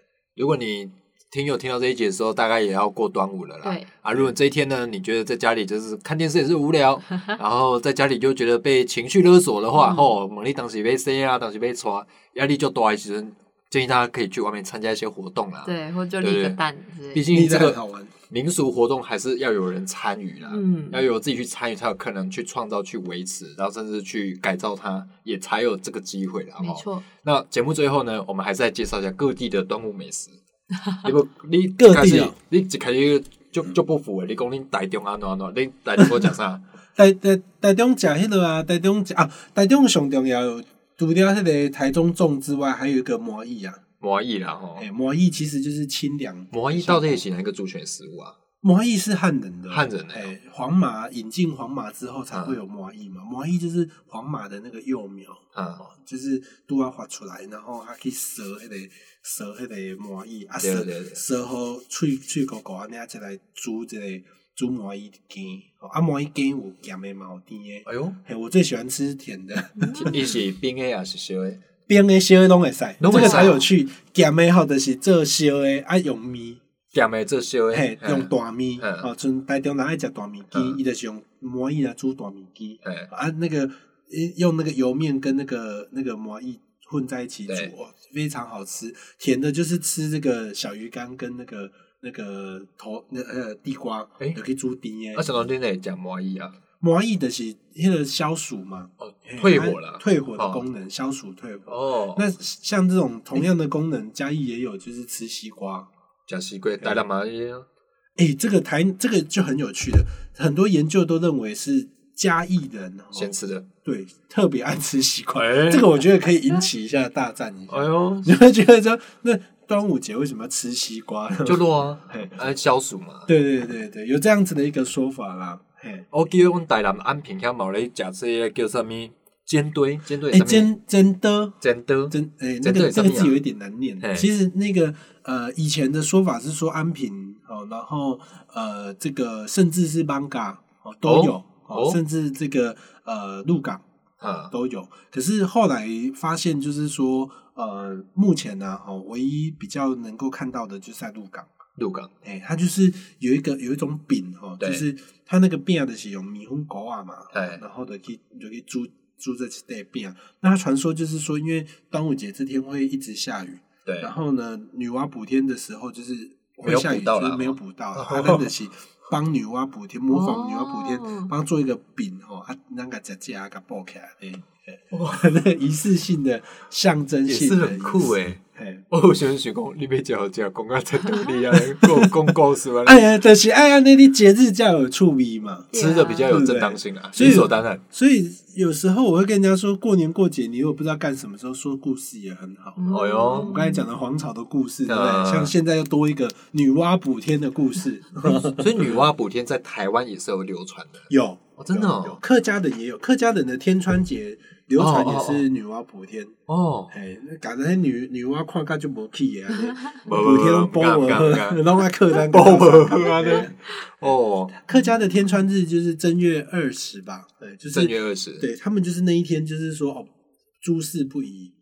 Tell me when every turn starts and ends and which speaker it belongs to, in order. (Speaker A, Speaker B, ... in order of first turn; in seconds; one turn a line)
Speaker A: 0.4-16.6
Speaker B: 9.7-10.1
Speaker B: 15.6-17.4
Speaker A: 17.1-17.8
Speaker C: 17.2-18.1
Speaker A: 18.3-30.4
Speaker B: 20.5-21.0
Speaker B: 26.6-27.1
Speaker A: 31.0-36.6
Speaker C: 31.8-32.4
Speaker C: 37.0-43.8
Speaker A: 44.0-44.9
Speaker C: 44.8-47.2
Speaker A: 46.5-48.4
Speaker C: 48.6-70.3
Speaker A: 49.7-50.3
Speaker A: 52.3-52.6
Speaker A: 55.5-55.8
Speaker A: 60.6-61.2
Speaker A: 67.9-68.2
Speaker B: 69.8-70.2
Speaker A: 70.0-71.6
Speaker C: 71.9-76.6
Speaker A: 73.0-73.6
Speaker B: 73.1-73.5
Speaker A: 76.9-79.1
Speaker C: 77.7-95.4
Speaker A: 80.5-80.8
Speaker A: 82.8-83.1
Speaker A: 95.1-96.6
Speaker C: 96.8-105.9
Speaker A: 99.0-100.6
Speaker A: 101.7-102.2
Speaker A: 106.3-107.7
Speaker C: 108.2-122.4
Speaker A: 113.1-113.7
Speaker A: 115.4-116.0
Speaker A: 117.7-118.4
Speaker A: 121.4-123.3
Speaker C: 123.3-126.1
Speaker A: 126.1-130.7
Speaker C: 130.3-143.8
Speaker A: 131.6-133.4
Speaker A: 134.0-134.3
Speaker A: 141.1-142.0
Speaker A: 144.2-144.5
Speaker C: 144.5-151.5
Speaker A: 151.8-152.1
Speaker C: 152.2-178.8
Speaker A: 157.3-157.6
Speaker A: 163.8-164.1
Speaker A: 166.6-168.5
Speaker B: 170.1-171.3
Speaker A: 174.9-175.3
Speaker A: 177.3-183.1
Speaker B: 181.1-181.4
Speaker C: 181.8-182.3
Speaker C: 182.8-185.7
Speaker B: 185.7-186.4
Speaker A: 185.7-187.8
Speaker C: 186.3-199.1
Speaker B: 192.8-193.8
Speaker A: 192.9-193.6
Speaker A: 194.9-195.5
Speaker A: 198.2-202.2
Speaker C: 201.1-206.4
Speaker A: 204.8-205.4
Speaker A: 206.5-206.9
Speaker C: 206.9-220.1
Speaker A: 210.0-214.5
Speaker B: 213.1-213.4
Speaker A: 217.7-218.4
Speaker C: 220.6-221.5